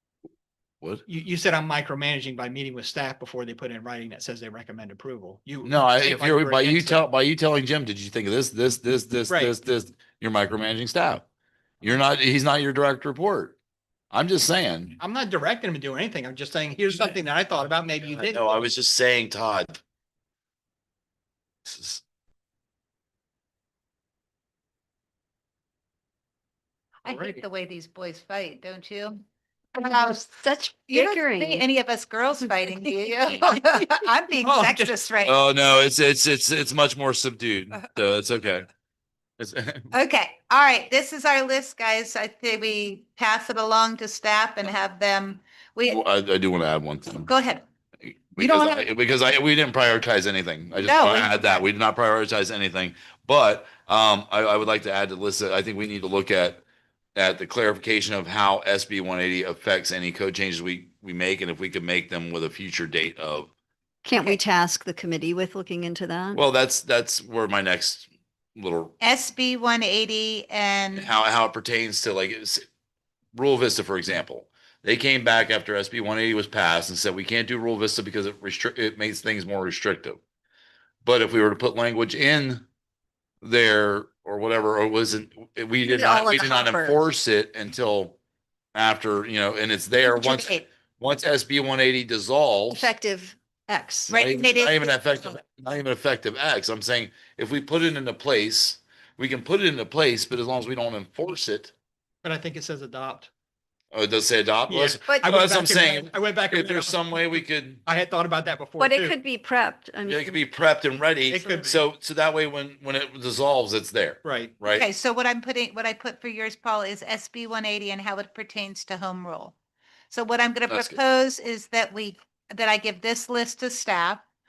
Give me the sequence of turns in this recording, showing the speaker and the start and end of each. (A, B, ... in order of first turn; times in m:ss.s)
0:01.1-0:07.0 A
0:05.6-0:11.2 B
0:09.3-0:09.5 A
0:11.8-0:13.6 B
0:14.1-0:15.0 B
0:15.0-0:18.6 A
0:18.2-0:19.8 B
0:21.6-0:22.0 B
0:27.0-0:29.2 C
0:29.8-0:30.2 C
0:30.2-0:31.6 D
0:30.9-0:35.4 C
0:34.4-0:35.0 A
0:35.2-0:38.7 B
0:39.4-0:39.9 B
0:39.9-0:46.0 C
0:45.9-0:47.3 B
0:47.2-0:47.6 C
0:48.3-0:56.6 B
0:48.4-0:48.9 C
0:50.8-0:51.6 C
0:57.2-1:03.5 B
1:04.0-1:06.4 D
1:06.3-1:08.9 B
1:09.0-1:11.1 C
1:11.0-1:12.6 B
1:13.3-1:20.2 B
1:21.0-1:22.6 B
1:23.4-1:28.2 B
1:25.9-1:27.0 D
1:28.7-1:32.9 B
1:30.0-1:30.7 C
1:32.7-1:34.2 D
1:34.1-1:35.4 C
1:34.1-1:41.7 B
1:42.2-1:43.3 A
1:43.9-1:47.8 B
1:44.7-1:47.0 A
1:47.8-1:49.2 A
1:48.8-1:50.4 D
1:50.1-1:54.9 B
1:51.3-1:51.8 A
1:54.2-1:54.5 A
1:54.7-1:59.6 C
2:00.1-2:04.2 C
2:00.7-2:01.0 B